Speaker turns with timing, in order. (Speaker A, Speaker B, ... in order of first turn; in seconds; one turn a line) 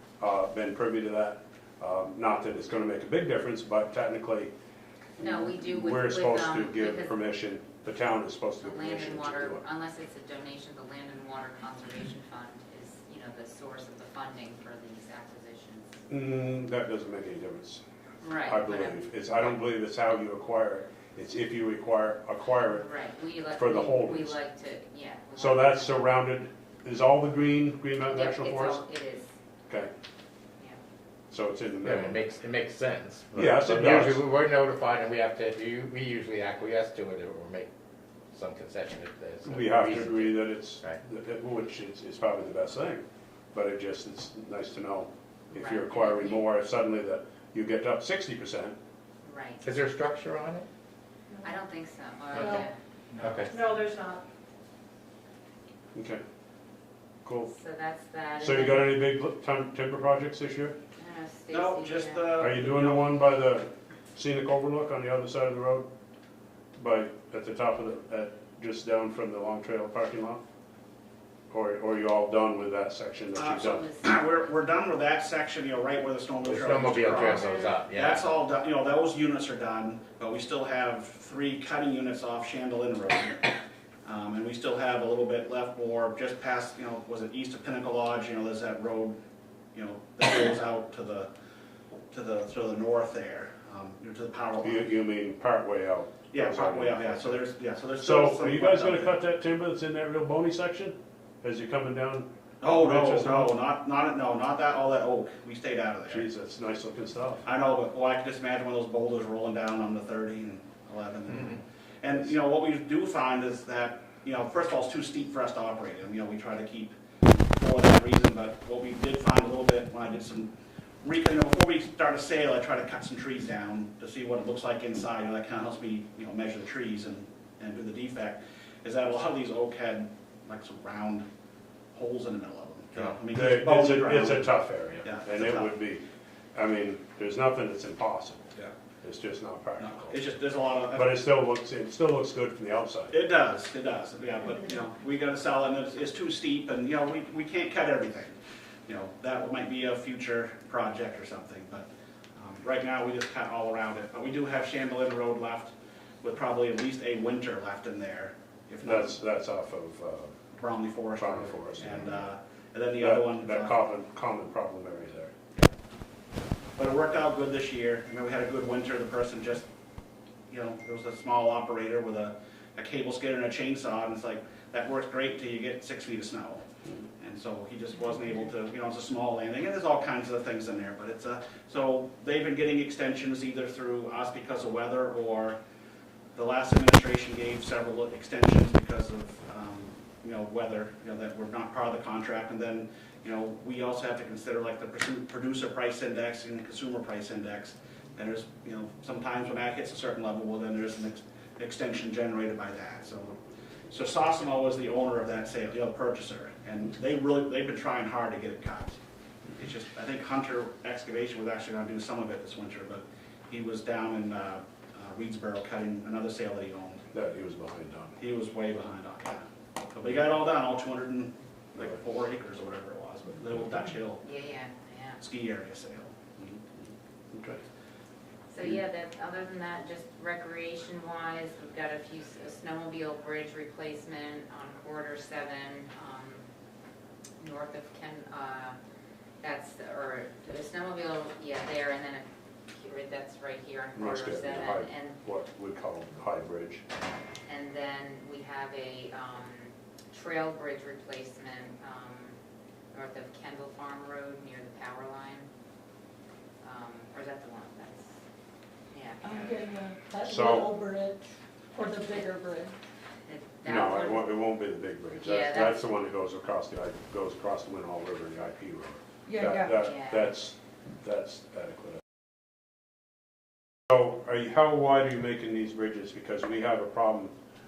Speaker A: 0.2-4.5
Speaker B: 5.2-7.2
Speaker A: 5.2-9.6
Speaker B: 8.6-16.0
Speaker A: 16.1-17.8
Speaker B: 18.2-19.0
Speaker A: 18.4-22.8
Speaker B: 22.6-26.1
Speaker A: 23.6-24.4
Speaker A: 25.4-28.8
Speaker B: 28.1-29.3
Speaker A: 31.3-32.2
Speaker C: 31.8-37.7
Speaker A: 33.3-34.2
Speaker C: 38.3-41.0
Speaker A: 39.4-43.0
Speaker A: 43.5-48.8
Speaker B: 45.5-46.5
Speaker B: 49.2-49.6
Speaker C: 49.6-50.7
Speaker B: 51.4-52.7
Speaker D: 52.3-52.6
Speaker C: 52.4-52.6
Speaker C: 53.2-53.5
Speaker D: 53.5-54.2
Speaker A: 55.9-56.2
Speaker A: 57.2-57.5
Speaker B: 57.5-59.0
Speaker A: 58.4-60.8
Speaker B: 61.0-62.5
Speaker E: 61.5-63.2
Speaker A: 62.4-65.9
Speaker A: 66.8-70.4
Speaker A: 71.5-73.8
Speaker E: 73.3-83.5
Speaker B: 73.6-74.3
Speaker C: 76.4-78.3
Speaker B: 77.2-77.8
Speaker E: 84.0-89.2
Speaker E: 89.7-91.3
Speaker E: 92.1-94.9
Speaker A: 94.6-97.4
Speaker E: 96.3-99.2
Speaker A: 98.0-103.5
Speaker E: 102.6-106.3
Speaker A: 106.1-107.4
Speaker E: 107.4-117.0
Speaker E: 117.5-131.2
Speaker E: 131.9-135.7
Speaker A: 133.3-140.2
Speaker E: 139.8-141.1
Speaker A: 140.9-143.2
Speaker E: 143.1-148.3
Speaker E: 148.9-159.2
Speaker A: 158.8-160.3
Speaker E: 160.6-163.8
Speaker A: 161.2-162.2
Speaker A: 163.0-165.3
Speaker E: 166.8-169.7
Speaker E: 170.5-176.6
Speaker E: 177.2-185.6
Speaker E: 186.3-203.4
Speaker E: 203.9-209.0
Speaker E: 209.6-217.1
Speaker A: 217.1-218.2
Speaker E: 218.2-224.2
Speaker B: 224.2-225.2
Speaker E: 225.2-226.1
Speaker A: 226.4-227.6
Speaker B: 228.5-236.5
Speaker B: 237.4-238.8
Speaker B: 239.4-245.2
Speaker A: 244.0-246.8
Speaker B: 247.5-252.4
Speaker B: 252.9-255.5
Speaker B: 256.6-258.2
Speaker B: 258.9-259.6
Speaker D: 259.2-262.8
Speaker A: 260.2-260.8
Speaker B: 263.3-264.3
Speaker A: 263.6-272.0
Speaker B: 265.2-265.8
Speaker D: 269.3-269.7
Speaker B: 269.7-270.3
Speaker A: 273.9-277.3